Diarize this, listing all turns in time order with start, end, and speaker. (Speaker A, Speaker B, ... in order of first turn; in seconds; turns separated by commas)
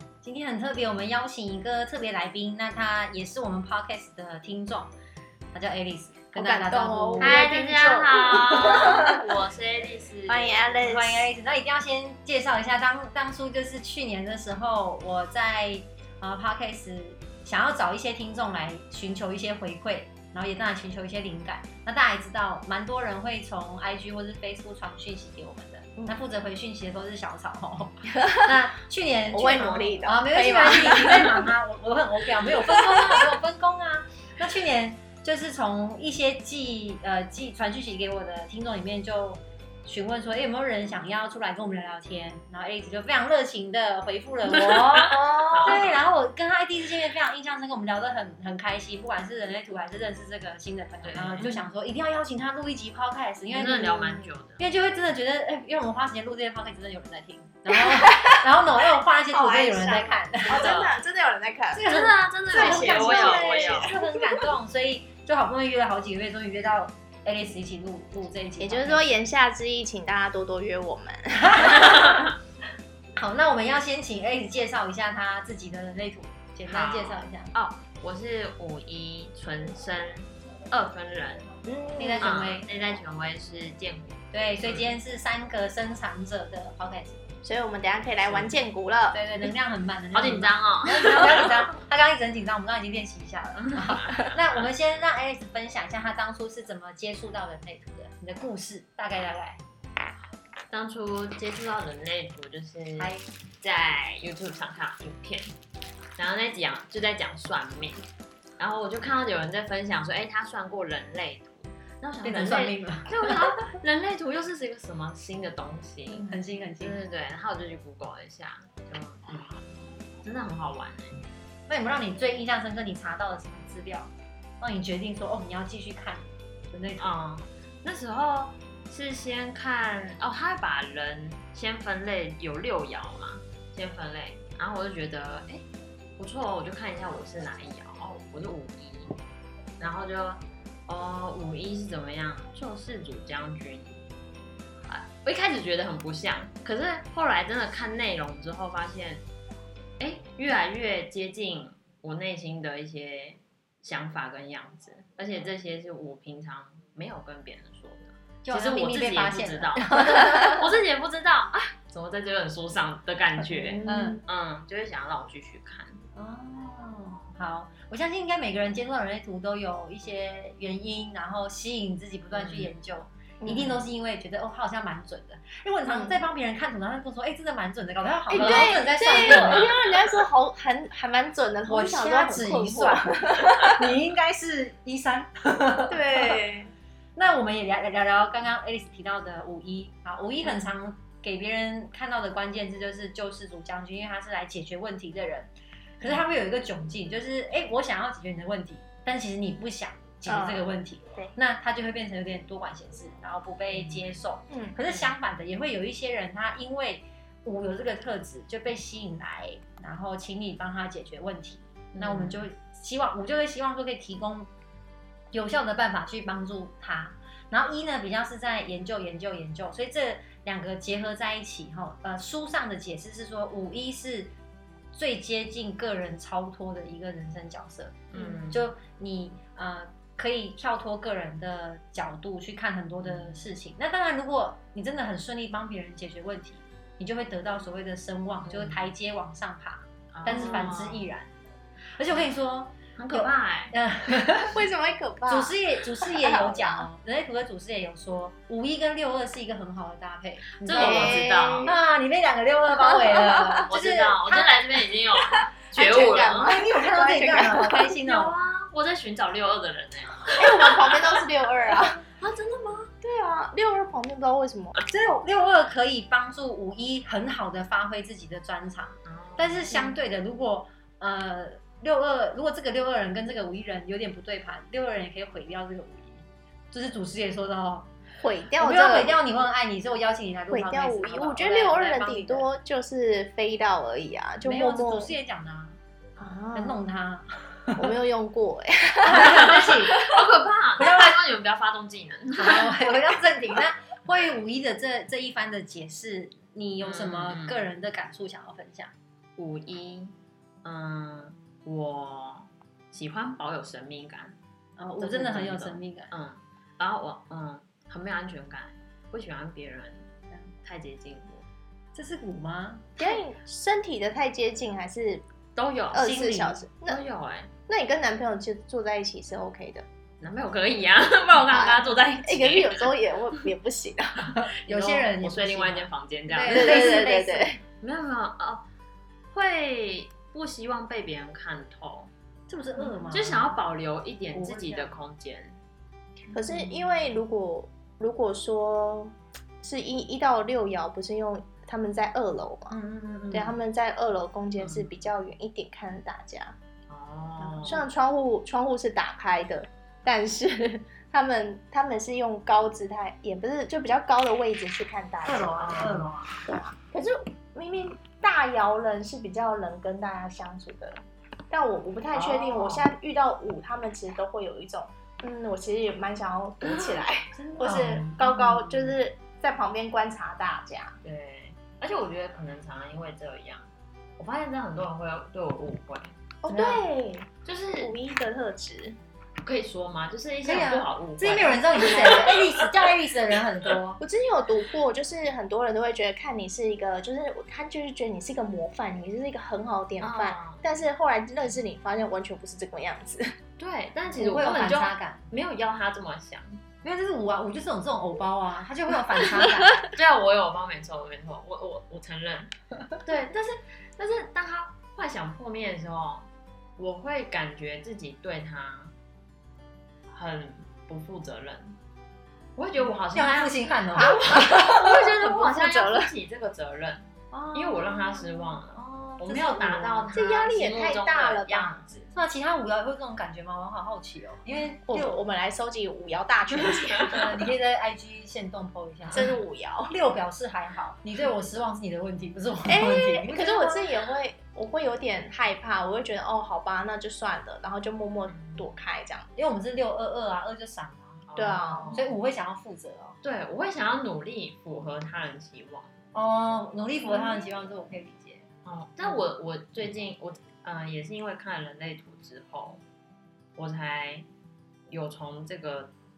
Speaker A: 0.2-4.9, Speaker A: 5.5-7.4, Speaker B: 6.3-9.2, Speaker C: 7.2-10.8, Speaker A: 8.4-9.0, Speaker B: 10.3-11.3, Speaker A: 10.8-60.7, Speaker B: 28.2-28.5, Speaker B: 29.3-31.5, Speaker C: 44.5-45.9, Speaker B: 45.4-45.8, Speaker C: 51.0-51.7, Speaker C: 53.5-54.6, Speaker B: 57.7-58.4, Speaker B: 59.3-61.9, Speaker C: 60.5-61.0, Speaker A: 61.7-69.2, Speaker C: 61.9-63.9, Speaker B: 62.5-64.5, Speaker B: 68.6-71.8, Speaker A: 71.5-72.1, Speaker A: 73.2-77.5, Speaker C: 76.7-81.5, Speaker B: 81.6-82.4, Speaker A: 82.0-82.7, Speaker C: 82.2-84.9, Speaker A: 84.3-87.2, Speaker B: 87.4-89.2, Speaker C: 88.2-88.5, Speaker A: 89.1-99.6, Speaker C: 90.1-91.7, Speaker C: 93.6-94.3, Speaker C: 100.7-105.5, Speaker A: 103.0-103.2, Speaker C: 106.2-108.0, Speaker C: 108.6-119.6, Speaker A: 112.2-113.5, Speaker A: 116.2-117.0, Speaker C: 120.2-121.3, Speaker A: 121.7-127.1, Speaker C: 127.0-135.6, Speaker C: 136.2-139.1, Speaker C: 139.8-143.9, Speaker C: 144.8-149.2, Speaker C: 150.0-166.0, Speaker A: 158.4-160.7, Speaker B: 163.4-164.2, Speaker A: 163.8-164.2, Speaker A: 166.2-179.7, Speaker C: 172.3-172.7, Speaker B: 173.4-173.7, Speaker C: 173.5-173.8, Speaker B: 175.8-176.2, Speaker B: 178.3-183.9, Speaker C: 178.3-179.7, Speaker A: 181.7-186.3, Speaker B: 185.9-186.7, Speaker A: 187.2-214.5, Speaker B: 200.2-201.3, Speaker C: 203.7-204.1, Speaker B: 204.5-204.8, Speaker C: 211.9-212.4, Speaker A: 215.3-224.3, Speaker A: 224.9-241.3, Speaker C: 228.1-228.7, Speaker B: 228.2-228.4, Speaker C: 233.0-233.4, Speaker C: 238.4-238.9, Speaker C: 240.1-241.1, Speaker B: 240.3-240.7, Speaker A: 242.0-244.6, Speaker C: 243.0-243.7, Speaker B: 244.5-246.9, Speaker A: 245.3-254.6, Speaker C: 250.6-251.8, Speaker B: 250.7-251.7, Speaker B: 253.0-253.6, Speaker C: 253.7-256.6, Speaker B: 255.7-257.9, Speaker A: 256.4-258.4, Speaker C: 258.0-261.0, Speaker B: 260.3-262.0, Speaker C: 262.2-262.9, Speaker B: 263.0-264.8, Speaker A: 264.9-277.9, Speaker C: 269.1-269.8, Speaker B: 269.7-270.0, Speaker B: 278.2-279.2, Speaker A: 278.6-282.5, Speaker B: 280.5-285.1, Speaker A: 284.4-285.8, Speaker B: 286.2-286.8, Speaker A: 286.5-287.8, Speaker B: 287.8-290.1, Speaker A: 289.0-289.9, Speaker C: 289.2-292.9, Speaker A: 290.8-291.2, Speaker A: 292.4-298.9, Speaker C: 296.8-297.7, Speaker C: 299.4-304.4, Speaker A: 304.8-306.1, Speaker C: 305.0-310.1, Speaker C: 310.6-311.4, Speaker A: 311.9-313.2, Speaker B: 313.0-315.2, Speaker C: 315.6-316.1, Speaker B: 315.9-317.0, Speaker A: 316.0-316.6, Speaker C: 316.9-317.5, Speaker B: 317.7-319.9, Speaker C: 320.2-323.0, Speaker B: 321.5-324.3, Speaker A: 324.3-327.6, Speaker C: 324.6-327.0, Speaker B: 326.5-327.6, Speaker C: 327.8-328.6, Speaker C: 329.3-332.1, Speaker A: 332.5-333.6, Speaker B: 332.8-333.1, Speaker C: 333.1-335.6, Speaker A: 334.3-334.9, Speaker B: 336.3-342.8, Speaker A: 342.7-343.6, Speaker B: 343.3-346.6, Speaker C: 344.6-344.9, Speaker C: 346.9-347.9, Speaker A: 347.4-347.9, Speaker B: 347.6-355.9, Speaker A: 355.2-356.4, Speaker C: 355.6-356.2, Speaker B: 356.5-370.9, Speaker C: 362.1-362.9, Speaker C: 366.7-367.0, Speaker A: 367.4-369.0, Speaker C: 367.6-368.2, Speaker C: 371.0-373.7, Speaker C: 374.2-376.8, Speaker B: 376.4-377.3, Speaker C: 377.4-377.9, Speaker B: 377.8-379.0, Speaker C: 379.4-382.9, Speaker A: 380.4-384.0, Speaker B: 384.0-393.3, Speaker C: 390.0-390.7, Speaker C: 393.6-396.6, Speaker A: 394.1-395.2, Speaker A: 396.8-399.9, Speaker C: 399.8-402.5, Speaker C: 403.0-408.9, Speaker C: 410.1-411.8, Speaker C: 412.6-422.1, Speaker A: 413.1-414.3, Speaker B: 413.9-416.1, Speaker A: 417.3-420.1, Speaker B: 420.1-421.8, Speaker A: 422.1-425.2, Speaker B: 424.9-427.3, Speaker A: 427.1-429.3, Speaker C: 429.1-429.4, Speaker B: 429.1-429.9, Speaker A: 429.9-433.9, Speaker B: 432.6-439.3, Speaker C: 438.3-438.7, Speaker A: 439.4-441.2, Speaker C: 441.3-442.1, Speaker B: 441.4-442.0, Speaker A: 441.9-443.2, Speaker C: 443.2-445.9, Speaker A: 446.1-448.4, Speaker C: 448.6-452.8, Speaker C: 453.6-454.3, Speaker C: 454.9-455.9